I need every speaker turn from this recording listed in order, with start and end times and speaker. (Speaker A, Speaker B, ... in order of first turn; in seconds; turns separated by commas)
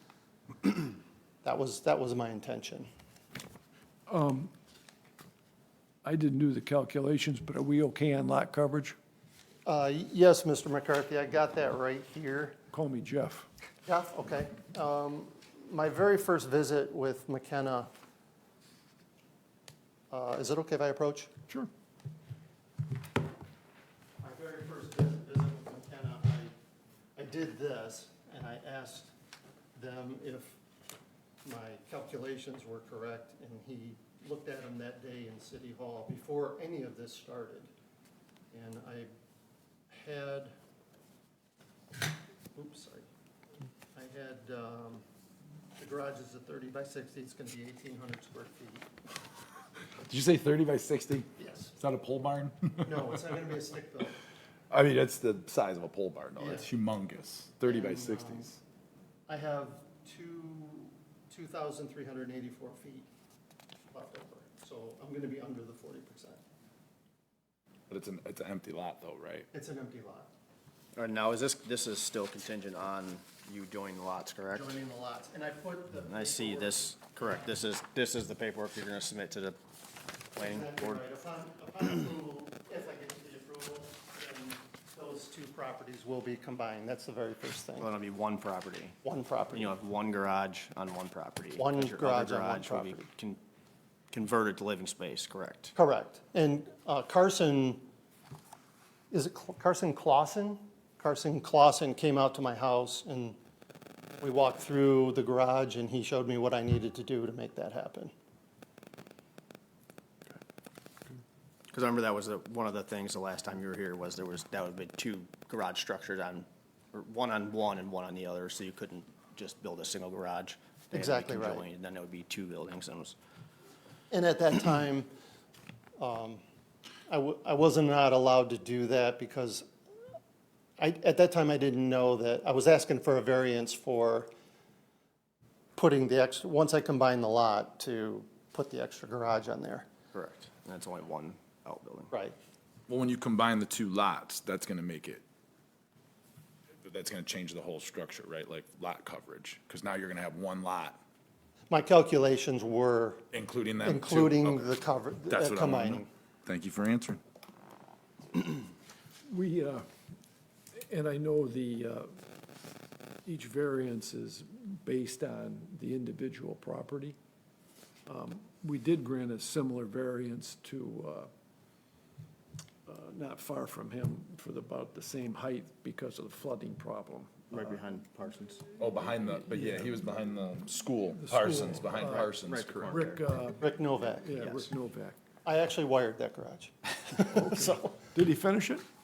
Speaker A: 1.4-2.9, Speaker B: 4.1-4.5, Speaker B: 6.0-8.9, Speaker A: 9.7-12.6, Speaker B: 12.7-13.5, Speaker A: 13.8-17.9, Speaker A: 20.1-21.3, Speaker A: 24.2-26.5, Speaker A: 27.1-29.1, Speaker A: 29.7-30.6, Speaker A: 31.4-37.7, Speaker A: 38.5-39.1, Speaker A: 39.9-40.5, Speaker A: 42.5-43.1, Speaker A: 43.9-45.0, Speaker A: 45.8-48.9, Speaker C: 50.1-53.1, Speaker A: 51.4-51.7, Speaker A: 52.8-54.2, Speaker C: 54.7-58.6, Speaker A: 56.4-56.7, Speaker A: 57.6-58.5, Speaker A: 59.3-63.1, Speaker A: 63.9-66.4, Speaker C: 67.9-69.5, Speaker A: 69.5-70.3, Speaker D: 71.0-74.8, Speaker A: 74.5-77.6, Speaker D: 76.1-79.6, Speaker D: 80.3-81.0, Speaker A: 80.3-87.9, Speaker D: 87.8-89.0, Speaker A: 89.0-89.7, Speaker D: 89.5-93.4, Speaker A: 91.5-93.1, Speaker D: 94.1-95.7, Speaker A: 95.7-97.8, Speaker A: 99.1-103.4, Speaker A: 104.2-108.1, Speaker D: 111.7-123.2, Speaker A: 120.9-121.7, Speaker A: 124.1-125.1, Speaker A: 126.0-126.4, Speaker A: 127.1-129.7, Speaker A: 130.8-134.3, Speaker A: 135.7-139.9, Speaker D: 140.1-142.1, Speaker C: 142.9-145.2, Speaker C: 146.8-151.0, Speaker A: 151.7-153.2, Speaker C: 153.3-157.2, Speaker A: 153.8-156.1, Speaker B: 159.3-159.8, Speaker B: 160.9-162.1, Speaker B: 163.2-167.2, Speaker B: 168.1-171.3, Speaker B: 172.8-177.7, Speaker D: 177.5-178.6, Speaker C: 178.8-183.1, Speaker B: 179.5-179.9, Speaker B: 181.1-182.3, Speaker D: 181.9-183.2, Speaker B: 182.9-185.2, Speaker A: 183.6-184.3, Speaker D: 184.3-184.7, Speaker A: 185.4-188.1, Speaker B: 187.3-188.8